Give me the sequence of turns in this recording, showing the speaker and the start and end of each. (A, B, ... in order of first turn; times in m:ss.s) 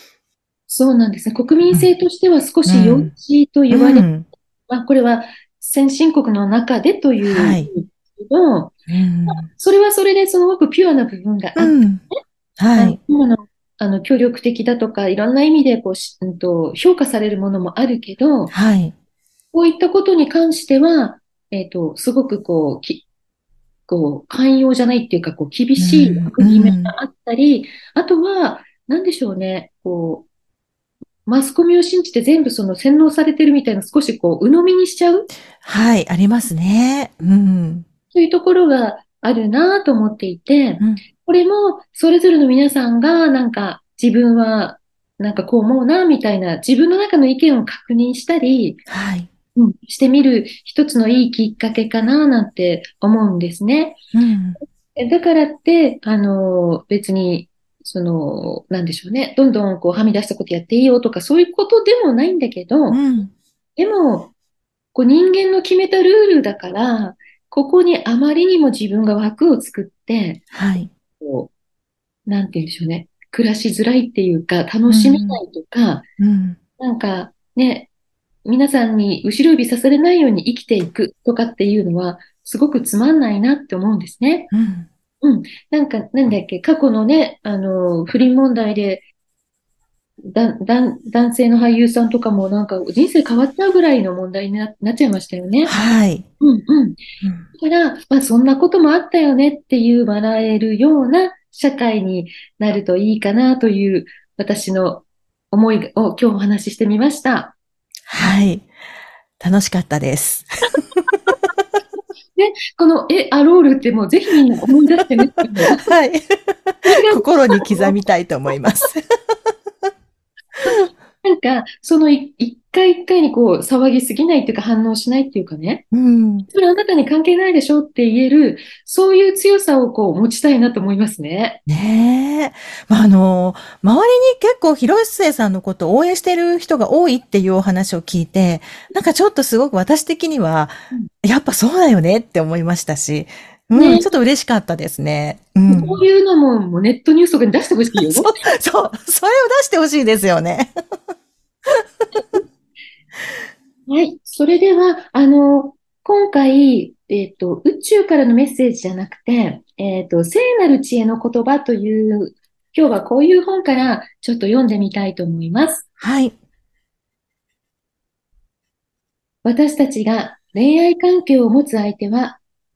0:00.7-0:04.1 A
0:02.6-0:03.1 B
0:03.7-0:04.3 B
0:04.7-0:08.8 A
0:07.2-0:07.7 B
0:08.9-0:09.4 B
0:09.3-0:11.9 A
0:11.6-0:12.0 B
0:12.6-0:13.0 B
0:12.7-0:18.5 A
0:18.5-0:18.9 B
0:19.5-0:23.0 A
0:23.9-0:30.3 A
0:25.8-0:26.9 B
0:31.2-0:35.3 A
0:35.6-0:37.8 B
0:38.1-0:48.8 A
0:48.9-0:49.3 B
0:49.6-0:54.0 A
0:54.1-0:54.6 B
0:54.9-1:03.0 A
1:02.9-1:03.3 B
1:03.8-1:04.3 A
1:04.9-1:10.4 A
1:10.5-1:10.9 B
1:11.2-1:11.5 A
1:12.2-1:16.0 A
1:14.9-1:15.4 B
1:16.2-1:16.6 B
1:16.8-1:17.9 A
1:18.4-1:24.5 A
1:24.5-1:24.9 B
1:25.2-1:29.0 A
1:30.2-1:35.7 A
1:35.6-1:36.2 B
1:36.4-1:37.0 A
1:37.5-1:47.5 A
1:48.1-1:48.7 B
1:49.4-1:51.1 B
1:52.4-1:55.9 A
1:55.8-1:59.0 B
1:56.8-1:57.9 A
2:00.6-2:05.9 A
2:05.9-2:06.5 B
2:06.4-2:11.6 A
2:11.7-2:26.0 B
2:23.7-2:24.1 A
2:25.7-2:28.3 A
2:28.1-2:30.7 B
2:33.9-2:45.9 A
2:46.0-2:46.3 B
2:49.4-2:52.4 A